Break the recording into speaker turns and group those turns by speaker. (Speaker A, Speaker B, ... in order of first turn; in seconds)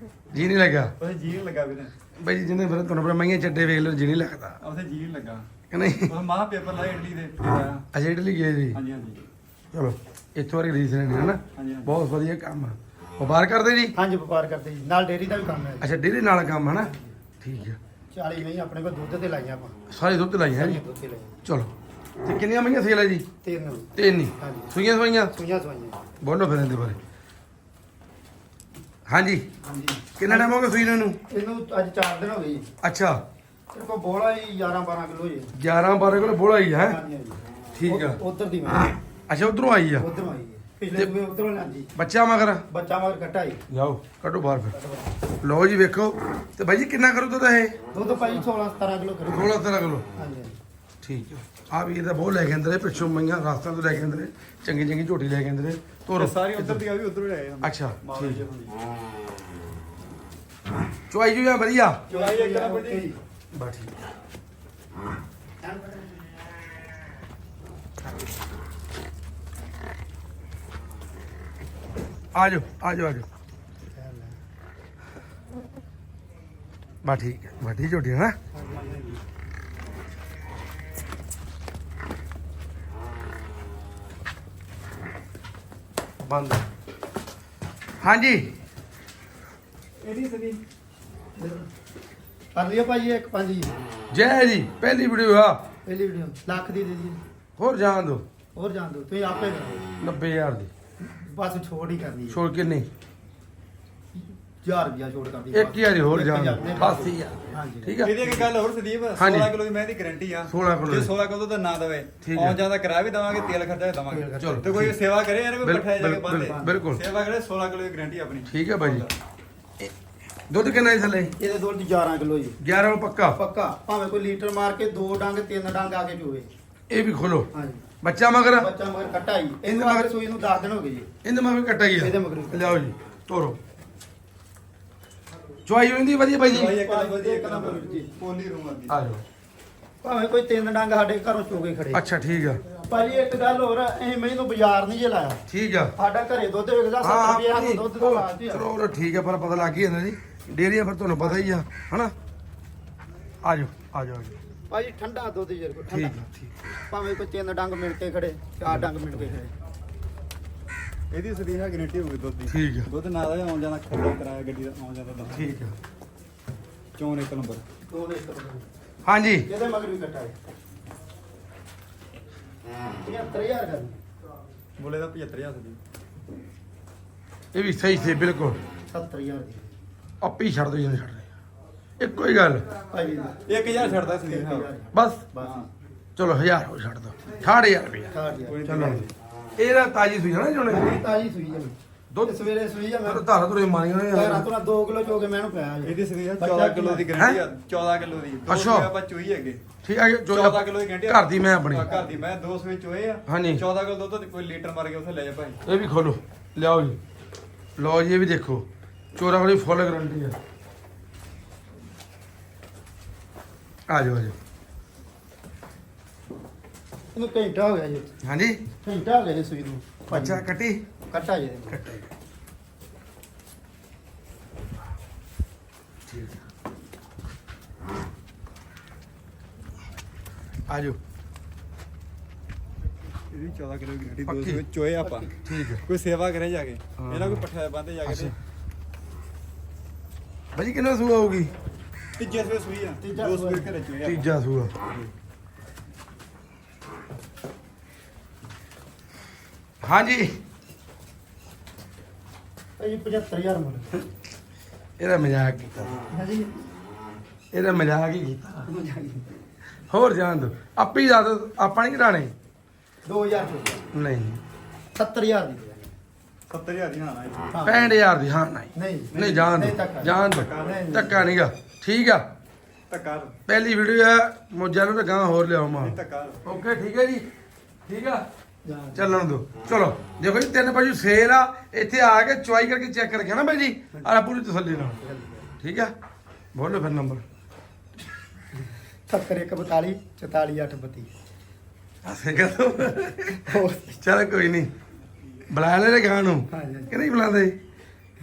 Speaker A: 0.3-0.9, 2.2-4.6, 5.7-6.2, 7.9-8.8, 9.7-13.9, 15.8-17.8, 19.9-20.8, 21.4-21.7, 22.2-23.2, 23.9-25.3, 26.2-27.0, 29.1-29.5, 30.2-31.2, 32.8-33.2, 35.5-37.0, 37.7-38.2, 39.3-40.1, 42.0-42.6, 43.7-44.7, 45.4-47.8, 49.3-50.0, 51.0-56.8, 57.6-58.4, 61.1-62.0, 63.5-63.9, 72.3-73.2, 77.0-78.3, 86.2-86.6, 88.0-88.5, 94.1-95.7, 97.6-98.2, 100.0-100.7, 102.3-102.9, 105.5-108.1, 109.2-109.5, 110.5-111.1, 112.2-112.6, 114.4-114.9, 115.6-117.0, 118.5-119.1, 120.5-121.3, 122.6-123.4, 126.9-127.5, 128.0-128.7, 129.7-130.1, 131.2-133.6, 135.7-136.8, 138.9-139.2, 141.9-142.6, 145.5-145.9, 147.0-152.1, 153.4-154.4, 155.9-156.5, 162.5-162.9, 165.3-165.7, 169.0-169.5, 177.5-178.6, 180.2-181.3, 182.0-182.7, 184.9-185.2, 186.2-188.1, 188.6-189.1, 189.6-191.0, 192.1-192.4, 193.1-194.5, 197.1-197.4, 198.5-198.9, 199.8-201.9, 203.3-203.6, 205.6-207.0, 207.8-210.3, 213.9-214.3, 218.2-218.6, 220.1-220.8, 221.7-222.1, 226.1-226.4, 230.7-231.0, 234.3-234.6, 235.4-235.8, 237.0-237.4, 238.1-238.3, 240.5-241.5, 244.0-244.7, 249.8-250.3, 255.0-255.9, 257.5-258.7, 259.9-262.3, 263.9-264.4, 267.6-272.2, 273.5-277.3, 277.9-278.2, 278.9-285.0, 285.6-285.9, 286.5-287.2, 292.0-293.5, 294.0-294.7, 295.5-297.6
Speaker B: 1.0-1.9, 4.6-5.5, 6.1-7.8, 8.7-9.2, 11.5-11.9, 56.1-58.7, 62.1-63.1, 90.0-90.6, 108.0-119.1, 136.5-139.0, 161.1-165.5, 166.9-167.6, 174.8-175.8, 183.4-184.7, 188.5-189.1, 195.8-199.6, 200.3-205.6, 233.3-235.3, 235.8-238.3, 242.2-244.3, 266.5-267.5, 269.1-269.4, 270.1-271.1, 272.9-273.4, 275.7-276.4
Speaker C: 13.9-15.9, 16.9-17.1, 18.1-19.8, 20.5-21.4, 23.4-24.7, 25.3-26.0, 29.6-30.5, 31.3-32.7, 33.7-35.5, 36.8-38.9, 40.0-41.9, 42.7-43.6, 44.7-45.1, 47.9-49.6, 50.1-50.6, 62.1-63.1, 65.6-66.2, 73.9-74.3, 78.5-79.2, 91.4-91.7, 92.5-93.7, 95.8-97.2, 98.5-99.9, 101.1-102.4, 104.6-108.4, 114.1-114.8, 116.4-116.8, 121.4-122.6, 123.3-126.5, 127.5-127.8, 128.6-131.1, 132.0-132.8, 136.6-138.1, 140.0-142.0, 142.8-145.4, 146.0-148.7, 154.7-156.2, 156.8-159.5, 167.9-168.7, 169.4-170.3, 173.0-174.0, 178.9-179.7, 182.9-185.7, 188.1-189.0, 190.7-193.2, 194.1-197.1, 201.8-202.2, 217.1-218.1, 218.8-220.4, 221.1-221.9, 243.0-243.7, 252.8-254.0, 256.1-256.5, 258.6-259.2, 263.0-263.8, 264.9-265.9, 267.5-267.9, 268.7-271.1, 278.6-279.2, 284.8-285.5, 289.1-291.1, 293.3-294.0, 296.5-297.0